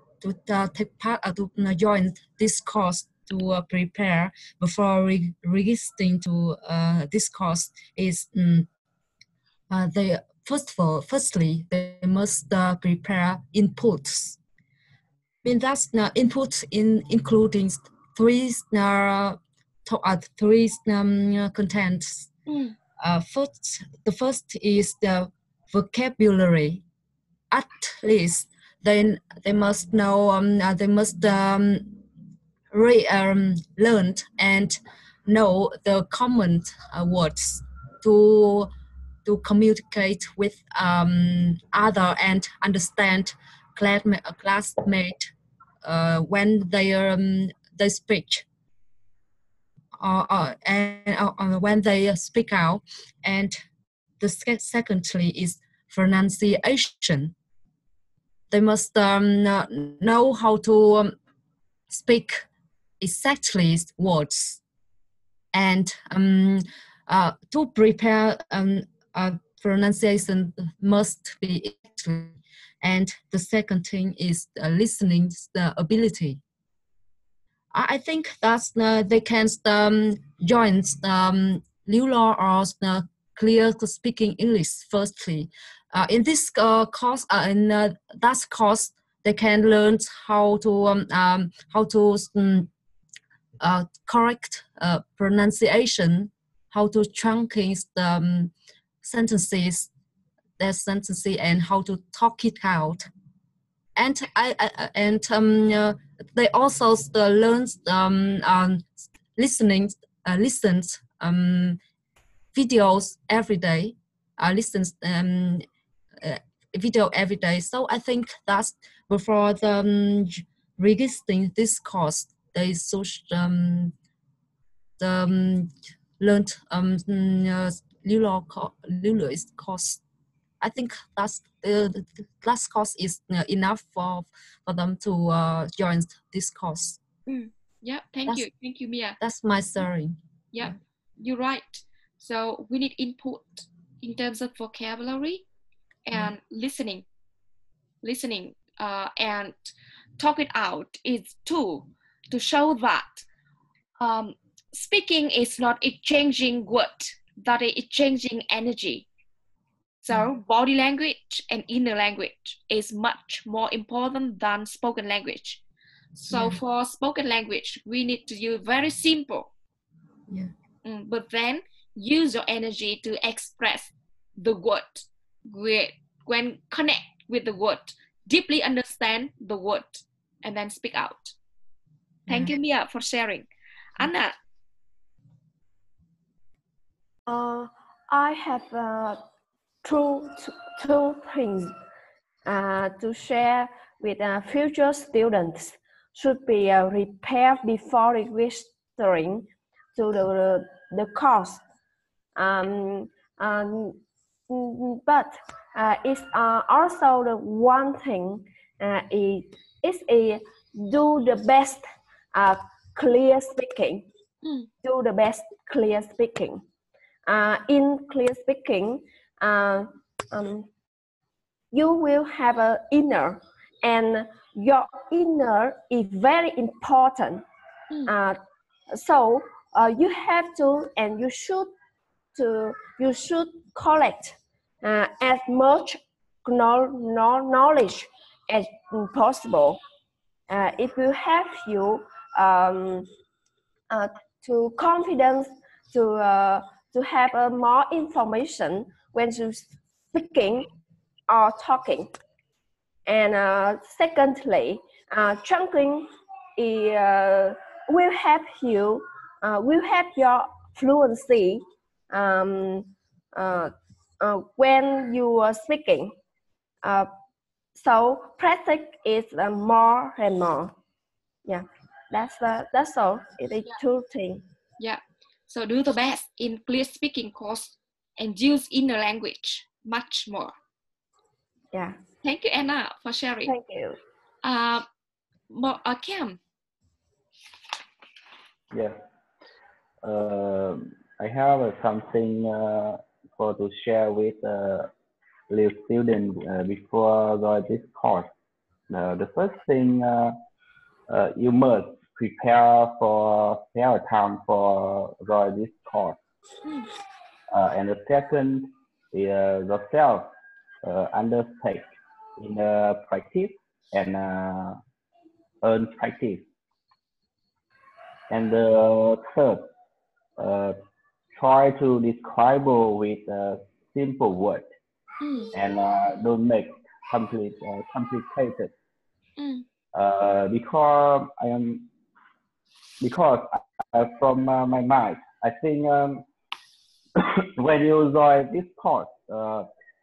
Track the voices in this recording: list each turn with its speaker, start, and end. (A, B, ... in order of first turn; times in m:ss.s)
0:00.2-0:08.7 A
0:09.7-0:14.4 A
0:15.4-0:22.3 A
0:22.5-0:22.7 B
0:23.0-0:26.8 A
0:27.5-0:32.0 A
0:32.7-0:38.7 A
0:39.2-0:45.3 A
0:45.8-0:48.4 A
0:50.0-0:53.6 A
0:54.2-0:57.3 A
0:58.5-1:01.1 A
1:01.9-1:02.4 A
1:03.0-1:04.6 A
1:05.5-1:16.4 A
1:17.7-1:32.7 A
1:33.6-1:39.9 A
1:40.6-1:43.1 A
1:44.0-1:51.8 A
1:52.5-1:55.6 A
1:56.2-2:03.9 A
2:05.0-2:10.0 A
2:10.6-2:17.0 A
2:17.3-2:19.2 B
2:19.2-2:20.7 A
2:20.5-2:25.4 B
2:26.0-2:27.0 B
2:28.0-2:29.6 B
2:30.2-2:33.2 B
2:34.0-2:39.1 B
2:40.0-2:45.6 B
2:46.2-2:49.5 B
2:46.3-2:46.6 A
2:50.8-3:01.3 B
3:02.3-3:02.5 A
3:02.3-3:04.4 B
3:07.2-3:09.2 C
3:09.8-3:11.7 C
3:12.4-3:21.6 C
3:22.4-3:34.0 C
3:34.4-3:34.7 B
3:34.8-3:36.6 C
3:37.2-3:40.7 C
3:41.7-3:47.4 C
3:48.1-3:48.4 C
3:48.9-3:51.7 C
3:52.3-3:59.8 C
4:00.5-4:03.1 C
4:03.9-4:10.7 C
4:11.3-4:12.1 C
4:13.0-4:26.1 C
4:26.8-4:27.1 C
4:27.7-4:30.7 C
4:31.4-4:34.4 C
4:34.8-4:40.5 B
4:42.2-4:43.5 B
4:43.4-4:44.0 C
4:44.4-4:44.8 B
4:45.5-4:46.4 B
4:48.7-4:49.0 D
4:50.0-4:54.9 D
4:55.5-4:58.3 D
4:58.9-5:00.3 D
5:01.1-5:06.2 D
5:07.5-5:10.3 D
5:10.8-5:14.8 D
5:15.6-5:16.4 D
5:18.3-5:19.7 D
5:20.4-5:20.7 D
5:21.4-5:24.7 D
5:25.2-5:25.5 B
5:25.5-5:28.7 D
5:29.4-5:29.6 B
5:29.9-5:31.9 D
5:33.0-5:36.2 D
5:37.2-5:39.6 D